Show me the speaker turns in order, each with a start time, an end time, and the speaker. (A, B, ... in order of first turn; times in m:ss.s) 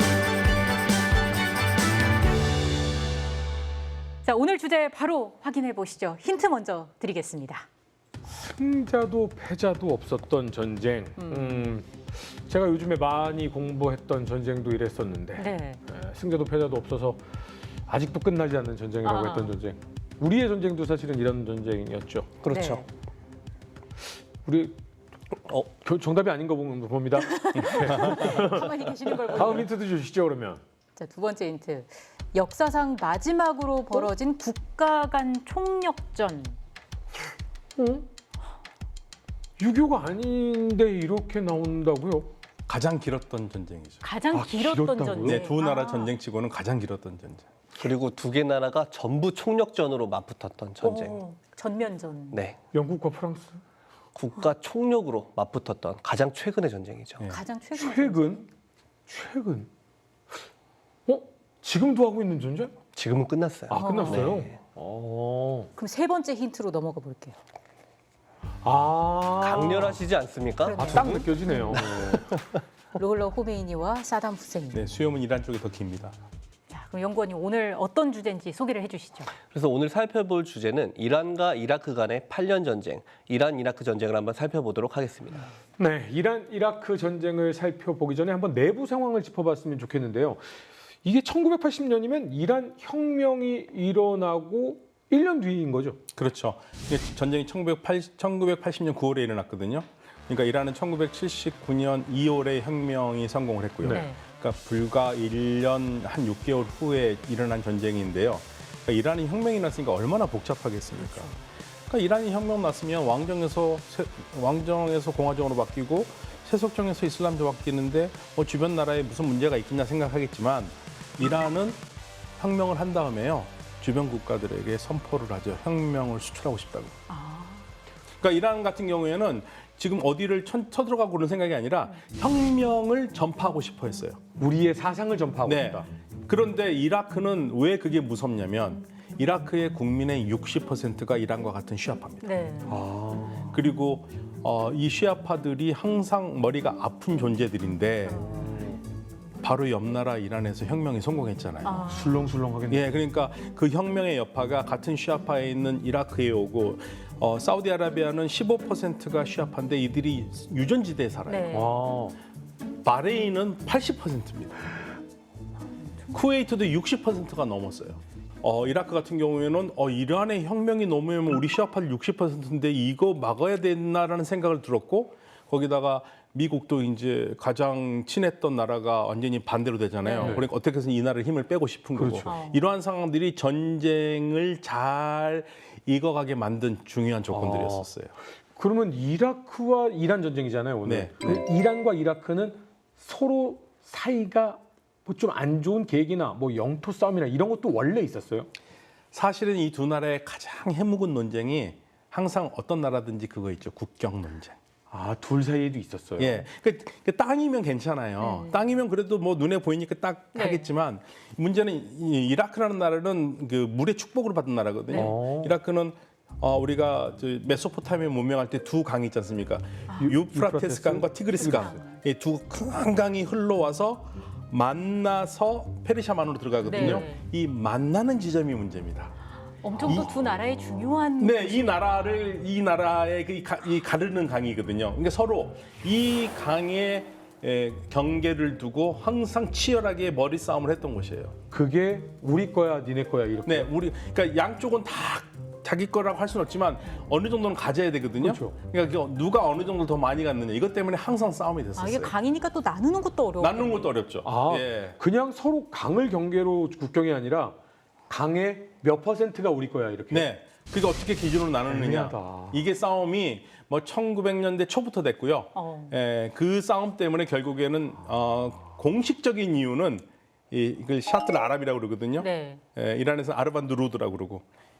0:04.2-0:07.6 A
0:08.3-0:17.2 B
0:11.2-0:11.7 A
0:15.3-0:15.8 A
0:17.9-0:22.3 B
0:19.0-0:19.6 A
0:22.4-0:22.9 C
0:22.5-0:22.9 A
0:24.4-0:24.8 B
0:25.4-0:25.7 C
0:25.7-0:30.6 B
0:27.2-0:29.7 A
0:27.6-0:28.4 D
0:31.0-0:36.6 A
0:37.8-0:38.0 B
0:39.6-0:42.3 B
0:42.7-0:44.0 D
0:44.0-0:46.1 A
0:44.3-0:45.5 B
0:45.2-0:47.5 D
0:47.7-0:51.2 C
0:50.8-0:52.4 A
0:52.3-0:52.6 C
0:52.7-0:53.6 B
0:54.1-0:57.3 C
0:57.2-0:58.5 A
0:57.8-0:58.4 B
0:59.1-0:59.7 B
1:01.1-1:02.7 B
1:02.9-1:04.6 C
1:03.7-1:05.7 B
1:03.7-1:04.3 A
1:05.8-1:07.4 A
1:08.6-1:10.0 B
1:09.4-1:12.4 C
1:10.6-1:11.8 A
1:10.7-1:12.4 B
1:12.9-1:14.9 A
1:14.7-1:16.2 D
1:16.7-1:19.3 A
1:19.5-1:25.5 C
1:25.8-1:30.4 B
1:31.0-1:36.0 B
1:36.1-1:51.4 D
1:43.8-1:44.1 B
1:43.9-1:44.2 A
1:51.0-1:51.4 A
1:51.9-2:01.8 D
2:02.4-2:06.9 D
2:07.1-2:07.6 A
2:08.2-2:14.2 D
2:14.4-2:15.9 B
2:15.4-2:22.3 D
2:22.2-2:22.8 A
2:22.7-2:23.5 B
2:23.5-2:28.3 D
2:28.0-2:28.7 A
2:28.4-2:28.8 B
2:29.4-2:31.9 D
2:31.6-2:32.2 A
2:31.8-2:33.0 B
2:32.7-2:41.6 D
2:41.2-2:41.8 A
2:41.5-2:42.2 B
2:42.8-2:44.7 D
2:46.1-3:08.1 D
3:00.0-3:00.4 A
3:00.2-3:00.5 B
3:01.9-3:02.3 B
3:02.2-3:02.6 A
3:07.3-3:07.9 B
3:08.6-3:18.5 B
3:10.8-3:11.4 D
3:19.1-3:24.6 D
3:24.9-3:26.4 B
3:26.2-3:49.1 D
3:28.2-3:28.7 A
3:30.3-3:30.7 A
3:34.9-3:35.5 B
3:39.9-3:40.2 A
3:40.0-3:41.7 B
3:41.4-3:41.8 A
3:46.6-3:47.2 A
3:49.6-3:51.9 A
3:49.8-3:50.2 D
3:51.2-4:01.3 D
4:01.5-4:03.7 B
4:03.4-4:12.1 D
4:08.2-4:08.6 B
4:11.8-4:13.9 A
4:13.4-4:15.0 D
4:14.2-4:17.6 B
4:18.1-4:20.3 B
4:20.1-4:34.4 D
4:21.7-4:22.6 B
4:25.5-4:26.0 A
4:32.2-4:32.6 A